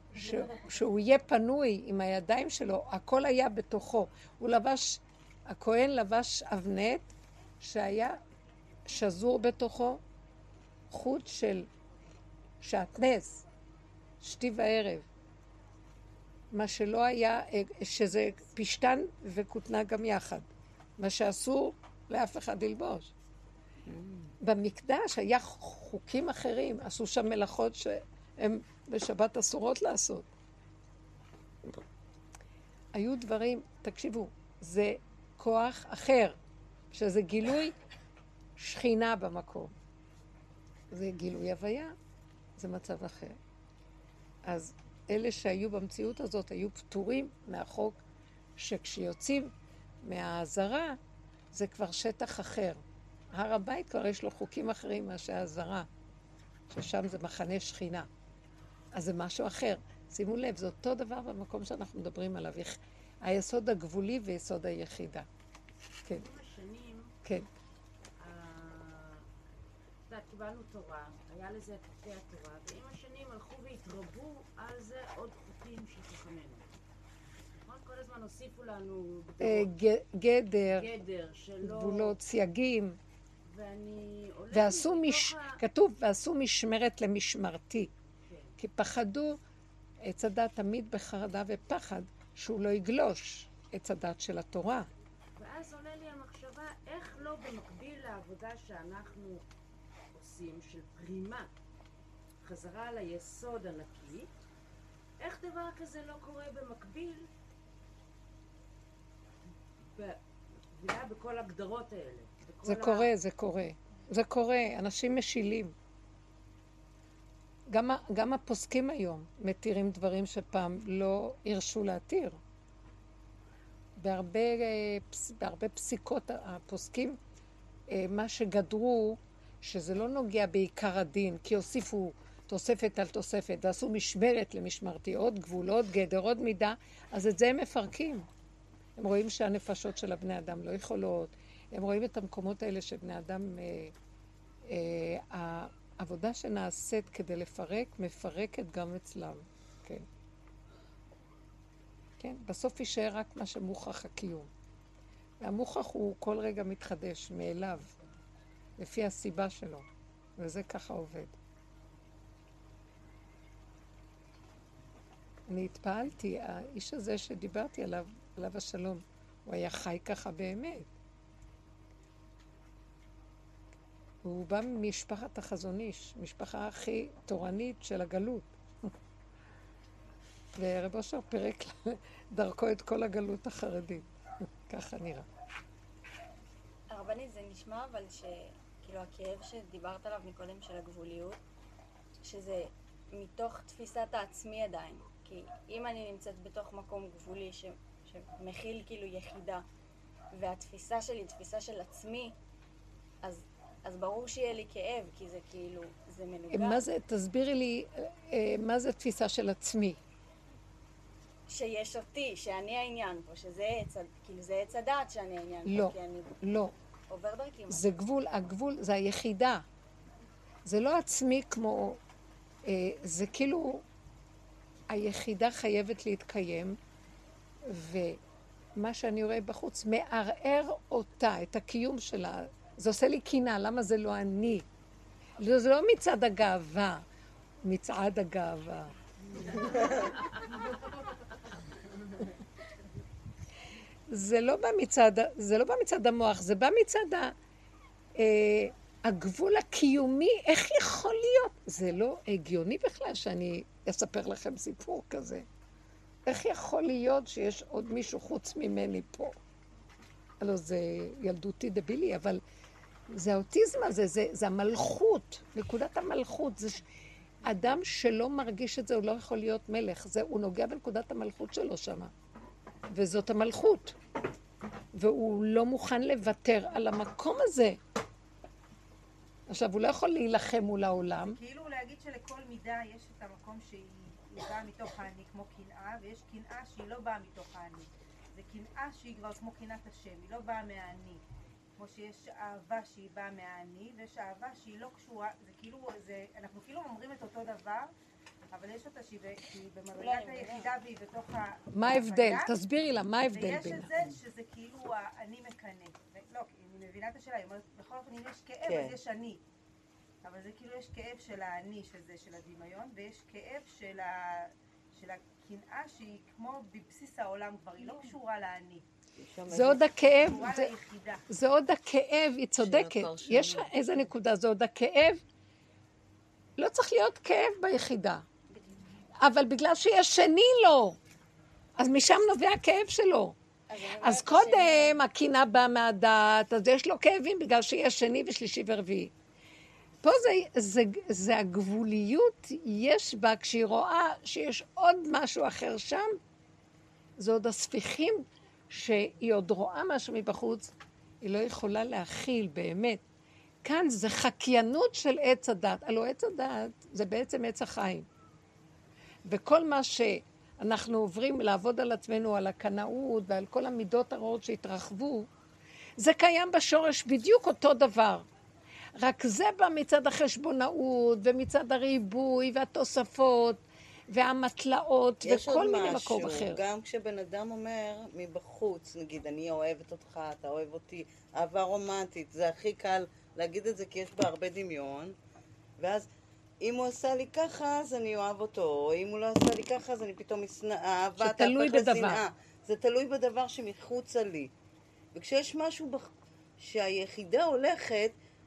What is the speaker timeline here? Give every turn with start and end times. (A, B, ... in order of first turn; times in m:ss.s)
0:00.1-0:08.2 A
0:08.9-0:10.0 A
0:10.9-0:11.7 A
0:12.6-0:13.4 A
0:14.2-0:15.1 A
0:16.5-0:20.5 A
0:21.0-0:23.1 A
0:23.9-0:24.3 B
0:24.4-0:30.3 A
0:32.9-0:36.4 A
0:36.9-0:37.7 A
0:38.6-0:39.7 A
0:40.9-0:42.0 A
0:42.6-0:43.4 A
0:44.4-0:48.0 A
0:48.6-0:51.0 A
0:51.5-0:52.8 A
0:53.3-0:55.9 A
0:56.7-0:58.1 A
0:58.9-1:05.3 A
1:06.1-1:07.1 C
1:08.2-1:09.2 C
1:10.1-1:16.7 C
1:17.6-1:19.7 C
1:19.4-1:20.9 A
1:20.7-1:22.2 C
1:21.6-1:23.0 A
1:23.4-1:25.6 C
1:24.5-1:27.9 A
1:28.6-1:29.4 A
1:30.0-1:34.9 A
1:35.4-1:39.4 C
1:40.1-1:41.5 C
1:42.4-1:44.3 C
1:45.2-1:47.3 C
1:50.0-1:50.2 C
1:50.7-1:53.1 C
1:52.6-1:55.7 A
1:57.7-2:02.4 A
2:04.0-2:07.2 A
2:07.9-2:18.3 A
2:19.0-2:23.9 A
2:24.7-2:30.0 A
2:32.2-2:34.5 A
2:35.4-2:37.9 A
2:38.8-2:39.9 A
2:40.4-2:41.3 A
2:45.5-2:50.9 A
2:54.2-2:58.9 A
3:00.6-3:04.1 A
3:04.7-3:05.3 A
3:06.9-3:11.4 D
3:12.2-3:19.6 D
3:20.3-3:22.3 D
3:23.2-3:26.8 D
3:26.5-3:30.0 A
3:31.5-3:36.4 D
3:35.7-3:36.7 A
3:37.1-3:37.8 D
3:37.7-3:39.6 A
3:40.6-3:42.0 A
3:42.6-3:43.8 A
3:44.9-3:46.8 A
3:47.6-3:48.2 A
3:48.8-3:54.7 A
3:55.4-3:57.0 A
3:57.6-3:59.7 A
4:04.1-4:07.3 A
4:08.2-4:15.4 A
4:16.3-4:19.4 A
4:20.4-4:22.4 A
4:23.1-4:26.8 A
4:27.4-4:32.1 A
4:32.9-4:34.0 A
4:35.0-4:37.8 A
4:39.5-4:41.4 A
4:41.2-4:51.2 E
4:51.8-4:57.9 E
4:58.5-5:02.5 E
4:59.9-5:00.7 D
5:01.7-5:03.9 A
5:03.3-5:09.4 E
5:08.7-5:09.0 B
5:10.2-5:18.8 E
5:19.2-5:20.0 B
5:19.5-5:20.7 A
5:20.0-5:21.2 E
5:21.3-5:25.2 A
5:22.6-5:23.7 B
5:26.6-5:28.3 A
5:29.2-5:31.0 A
5:31.8-5:33.4 A
5:33.7-5:35.0 E
5:34.0-5:39.1 A
5:40.0-5:46.2 A
5:47.2-5:53.0 A
5:53.6-5:58.1 A
5:59.3-6:05.3 A
6:06.0-6:08.3 A
6:09.0-6:16.6 A
6:15.2-6:25.2 B
6:25.8-6:26.1 B
6:26.6-6:34.5 B
6:31.2-6:32.2 A
6:35.1-6:38.1 B